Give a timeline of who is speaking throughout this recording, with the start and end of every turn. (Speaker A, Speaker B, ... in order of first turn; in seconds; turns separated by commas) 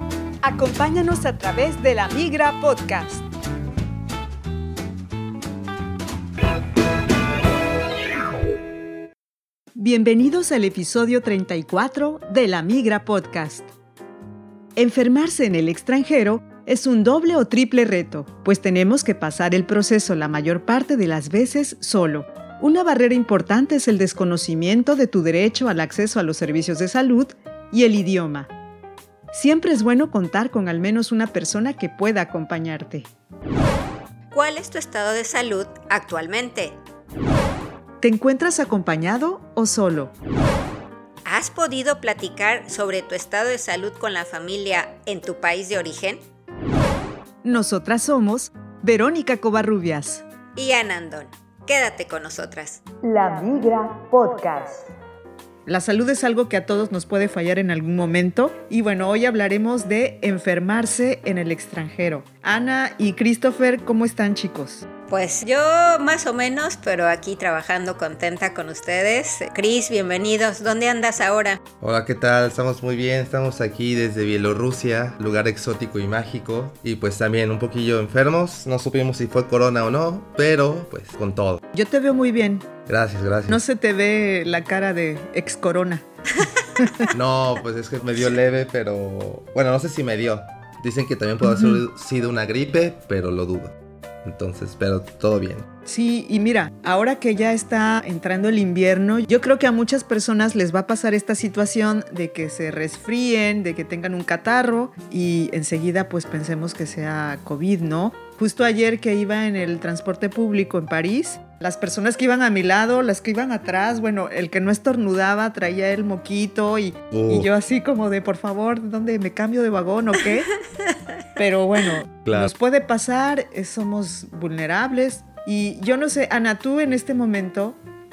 Speaker A: 0.4-3.2, Speaker A: 9.8-13.7, Speaker A: 14.8-28.5, Speaker A: 29.3-33.1, Speaker B: 34.3-36.8, Speaker A: 38.0-40.1, Speaker B: 41.2-46.2, Speaker A: 47.4-50.2, Speaker B: 50.6-52.8, Speaker A: 53.0-54.9, Speaker A: 55.7-64.8, Speaker B: 65.1-71.6, Speaker C: 71.8-81.6, Speaker A: 81.7-82.7, Speaker C: 82.9-83.6, Speaker A: 83.5-86.0, Speaker A: 86.8-87.1, Speaker C: 87.1-95.7, Speaker A: 91.4-91.8, Speaker A: 95.9-120.5, Speaker C: 117.1-117.5, Speaker A: 121.4-127.8, Speaker C: 122.2-122.5